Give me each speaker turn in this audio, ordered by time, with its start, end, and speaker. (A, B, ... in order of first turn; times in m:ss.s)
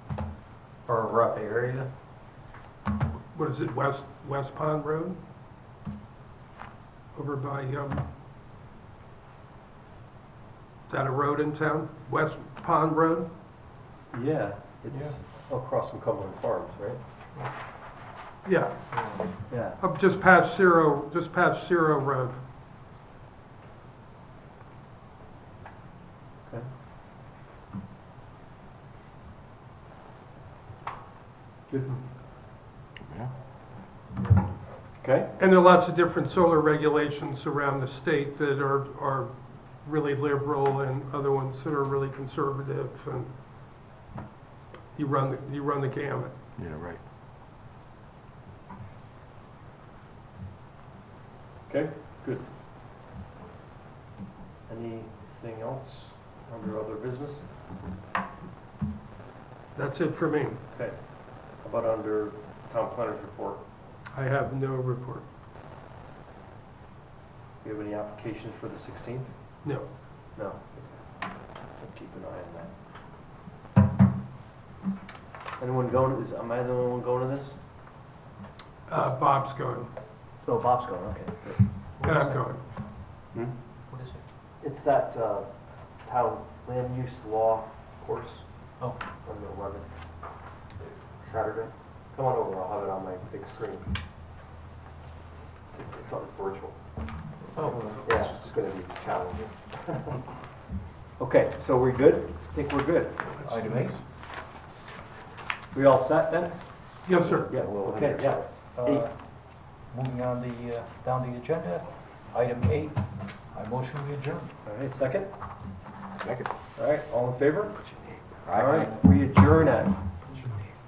0:00.8-0:01.9 A
0:03.3-0:05.2 B
0:07.1-0:08.1 B
0:10.9-0:13.3 B
0:14.1-0:17.1 C
0:18.4-0:22.4 B
0:18.9-0:19.3 A
0:19.5-0:19.8 C
0:26.4-0:26.7 C
0:31.7-0:32.1 C
0:34.2-0:35.3 C
0:35.4-0:43.4 B
0:44.9-0:46.3 B
0:46.6-0:47.0 D
0:51.6-0:52.5 C
0:54.6-0:57.5 C
0:59.7-1:00.6 B
1:00.7-1:03.7 C
1:04.1-1:05.3 B
1:07.6-1:12.8 C
1:09.6-1:09.9 B
1:15.6-1:17.6 C
1:18.8-1:19.9 B
1:20.3-1:21.8 C
1:22.0-1:22.6 A
1:22.0-1:22.6 B
1:23.3-1:23.6 C
1:23.9-1:24.2 A
1:24.6-1:30.4 C
1:31.1-1:34.0 C
1:35.7-1:36.8 C
1:37.5-1:38.0 A
1:37.9-1:40.3 C
1:41.2-1:43.3 C
1:43.2-1:44.1 B
1:43.4-1:44.0 A
1:45.7-1:49.1 C
1:47.0-1:47.5 B
1:47.2-1:48.4 D
1:48.7-1:54.5 A
1:54.6-1:55.4 C
1:56.1-1:56.5 D
1:56.7-1:57.9 C
1:57.8-1:58.4 B
1:58.4-2:00.2 C
1:58.4-1:58.7 D
1:58.6-1:59.1 A
2:00.2-2:00.8 B